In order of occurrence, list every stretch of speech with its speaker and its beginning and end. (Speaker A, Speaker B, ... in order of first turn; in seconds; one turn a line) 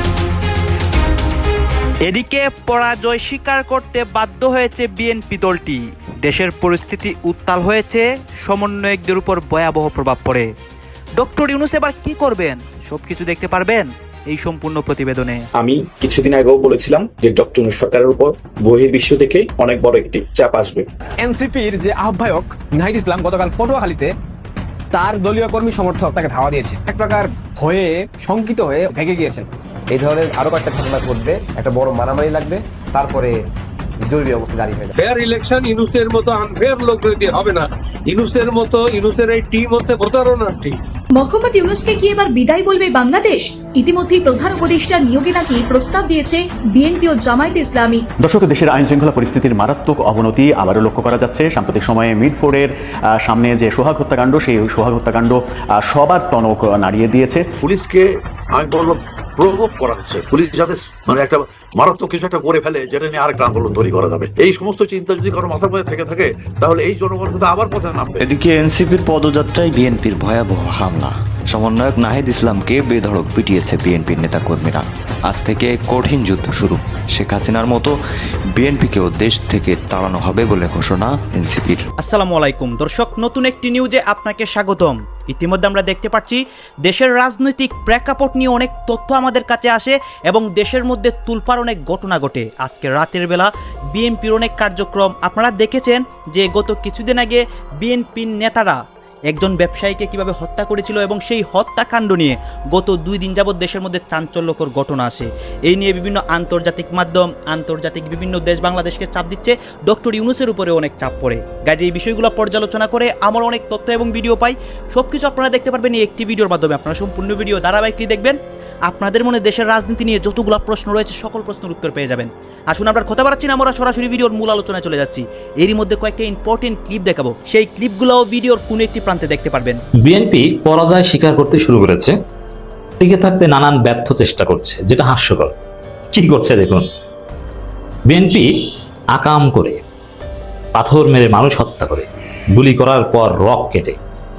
Speaker A: 2.1-10.5
Speaker A: 11.2-15.4
Speaker B: 15.6-20.9
Speaker C: 21.2-24.1
Speaker C: 24.9-29.5
Speaker D: 29.9-33.4
Speaker D: 34.0-34.9
Speaker E: 35.0-40.8
Speaker F: 41.2-48.0
Speaker G: 48.2-57.5
Speaker H: 57.6-68.3
Speaker I: 68.2-78.0
Speaker I: 78.5-81.8
Speaker A: 82.0-98.8
Speaker A: 99.3-129.8
Speaker J: 130.0-132.2
Speaker J: 133.0-135.6
Speaker J: 136.1-136.9
Speaker J: 138.1-139.8
Speaker J: 140.8-144.0